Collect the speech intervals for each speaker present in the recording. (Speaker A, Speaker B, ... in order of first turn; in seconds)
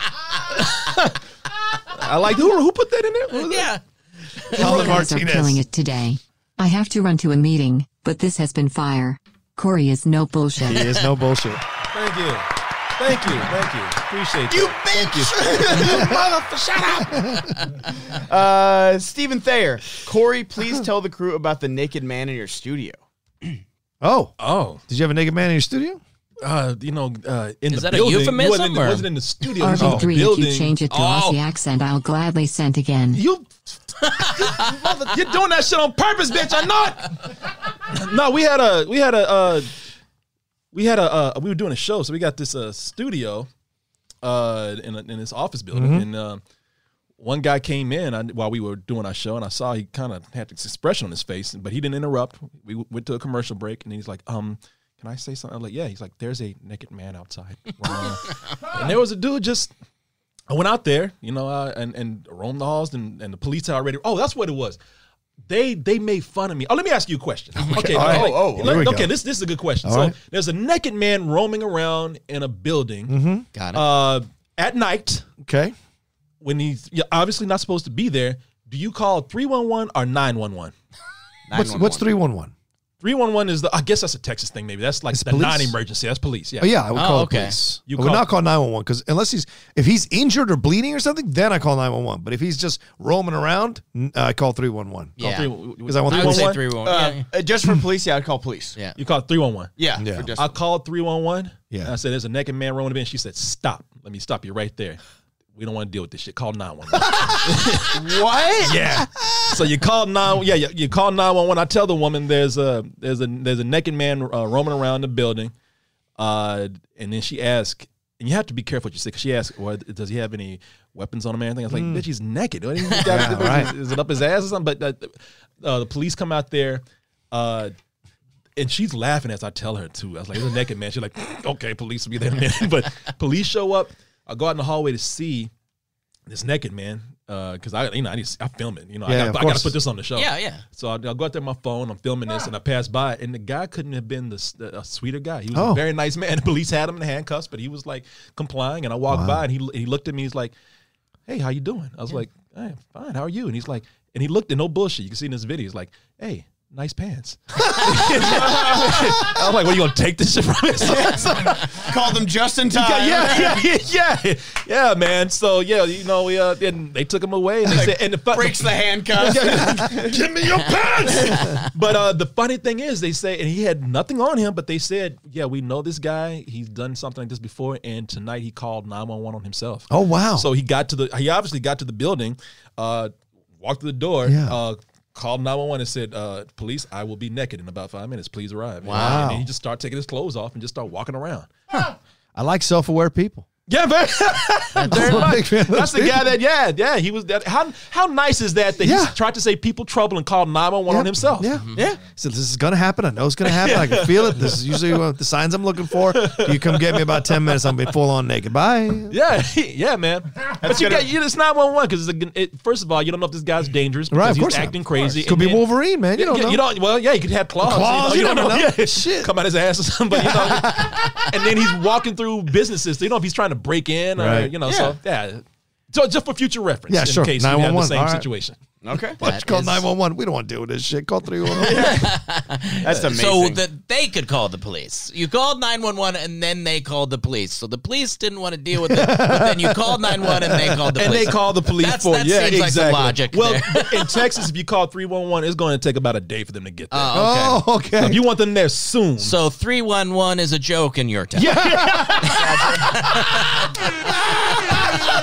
Speaker A: 0.9-1.1, 1.9-3.7, 11.9-12.4, 13.0-17.3, 24.4-24.8, 26.4-31.3, 33.1-37.3, 37.9-39.7, 40.7-43.5, 44.2-46.4, 47.2-59.7, 60.5-64.8, 65.5-73.2, 73.7-75.3, 76.4-80.7, 83.0-86.8, 87.9-88.3, 95.2-96.6, 99.0-99.7, 100.4-105.0, 105.5-108.0, 108.6-115.5, 116.2-127.7, 128.6-135.5, 136.3-150.5, 151.3-162.1, 162.7-191.5, 193.7-201.5, 203.4-205.0, 206.1-207.9, 209.1-228.6, 240.9-247.2, 248.0-249.4, 251.4-252.4
Speaker B: 3.3-3.8, 4.4-5.1, 27.7-29.1, 30.9-31.2, 34.2-34.7, 67.6-68.2, 73.5-73.8, 87.0-87.6, 95.2-95.5, 96.1-97.3, 122.9-123.3, 140.2-140.6, 188.9-189.3, 201.6-202.0, 229.2-229.8, 231.6-244.2, 246.9-247.6, 249.2-253.7
Speaker C: 4.5-10.9, 29.6-33.2
Speaker D: 4.5-5.6, 10.6-11.6, 15.7-16.2, 17.1-17.5, 24.0-24.3, 24.9-26.0, 29.8-30.1, 45.7-46.0, 67.7-69.1, 69.8-70.1, 73.1-73.5, 75.4-75.7, 81.5-82.5, 85.1-85.7, 86.6-95.2, 95.8-96.6, 100.0-100.3, 121.7-122.0, 123.0-123.7, 139.1-139.8, 145.5-145.8, 149.1-149.4, 179.9-180.5, 184.3-184.6, 188.9-189.4, 192.3-193.4, 194.8-196.3, 198.8-199.1, 200.9-209.2, 214.1-216.6, 217.6-219.3, 220.1-221.2, 224.2-224.6, 226.9-228.3, 229.2-232.1, 238.7-241.0, 247.1-248.2
Speaker E: 14.5-16.1, 18.1-23.0, 67.8-69.0, 81.5-82.1, 96.8-98.8, 99.8-100.5, 107.8-108.8, 158.4-158.8, 161.0-163.6, 167.7-170.2, 210.6-211.1, 224.7-224.9, 228.8-229.7, 231.6-232.1, 232.8-233.6, 252.2-253.0